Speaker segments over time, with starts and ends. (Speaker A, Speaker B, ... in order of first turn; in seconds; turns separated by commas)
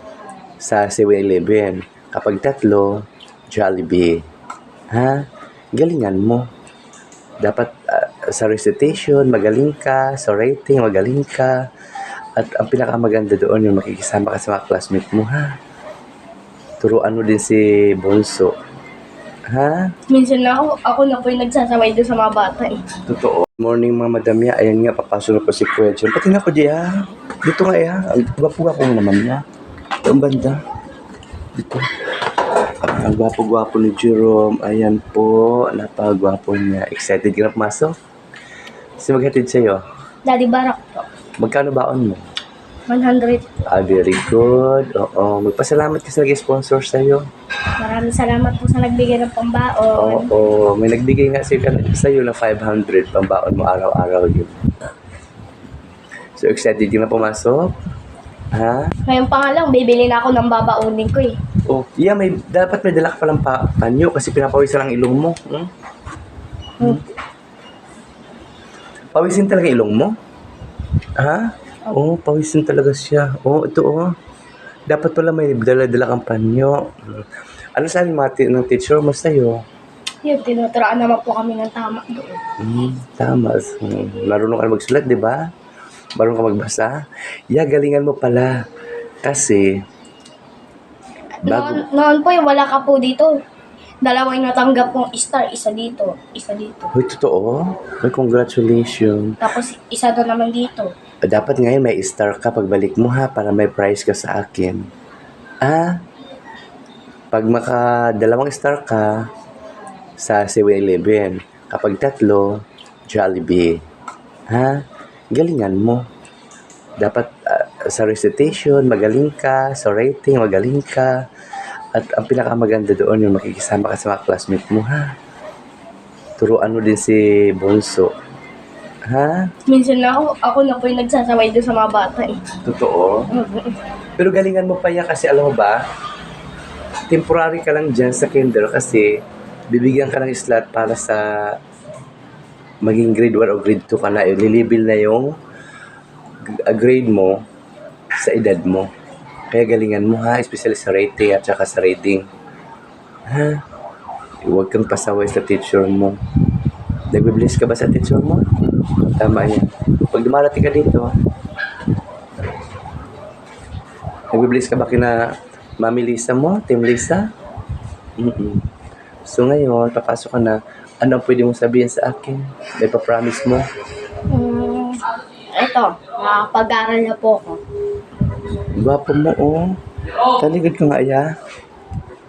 Speaker A: 0.6-4.2, Speaker A: 4.9-6.5, Speaker A: 7.4-11.6, Speaker A: 12.4-15.5, Speaker A: 16.8-18.5, Speaker A: 19.5-19.9, Speaker B: 20.1-22.8, Speaker A: 23.1-26.9, Speaker A: 27.4-29.4, Speaker A: 30.0-30.6, Speaker A: 31.6-31.9, Speaker A: 32.6-37.9, Speaker A: 39.0-39.8, Speaker B: 40.2-41.0, Speaker A: 41.4-42.2, Speaker B: 42.9-43.6, Speaker A: 43.6-47.3, Speaker B: 47.8-50.3, Speaker A: 49.9-54.5, Speaker A: 56.4-57.8, Speaker A: 58.5-58.9, Speaker B: 59.0-61.3, Speaker A: 61.7-65.7, Speaker A: 69.1-70.1, Speaker A: 71.2-74.1, Speaker A: 74.9-79.6, Speaker B: 80.2-82.4, Speaker A: 82.6-85.5, Speaker A: 86.2-87.0, Speaker A: 87.5-88.6, Speaker A: 89.2-89.8, Speaker B: 91.4-93.3, Speaker A: 91.4-91.8, Speaker B: 94.0-96.9, Speaker A: 96.9-99.4, Speaker B: 99.4-100.9, Speaker A: 101.3-104.9, Speaker A: 105.6-106.0, Speaker A: 107.3-109.3, Speaker A: 110.2-113.8, Speaker A: 114.5-116.1, Speaker A: 117.0-121.2, Speaker A: 121.9-125.1, Speaker A: 126.4-128.1, Speaker A: 129.1-129.5, Speaker B: 129.7-132.4, Speaker A: 132.6-133.3, Speaker B: 133.3-133.8, Speaker A: 134.2-135.8, Speaker A: 137.1-139.2, Speaker A: 139.7-141.5, Speaker A: 142.8-145.3, Speaker A: 146.5-147.4, Speaker A: 148.2-148.9, Speaker A: 149.5-152.3, Speaker A: 153.3-153.6, Speaker A: 154.4-156.2, Speaker A: 157.1-161.2, Speaker A: 164.3-167.3, Speaker A: 168.2-168.6, Speaker A: 169.3-173.7, Speaker B: 174.3-177.6, Speaker A: 178.8-179.8, Speaker A: 180.4-181.3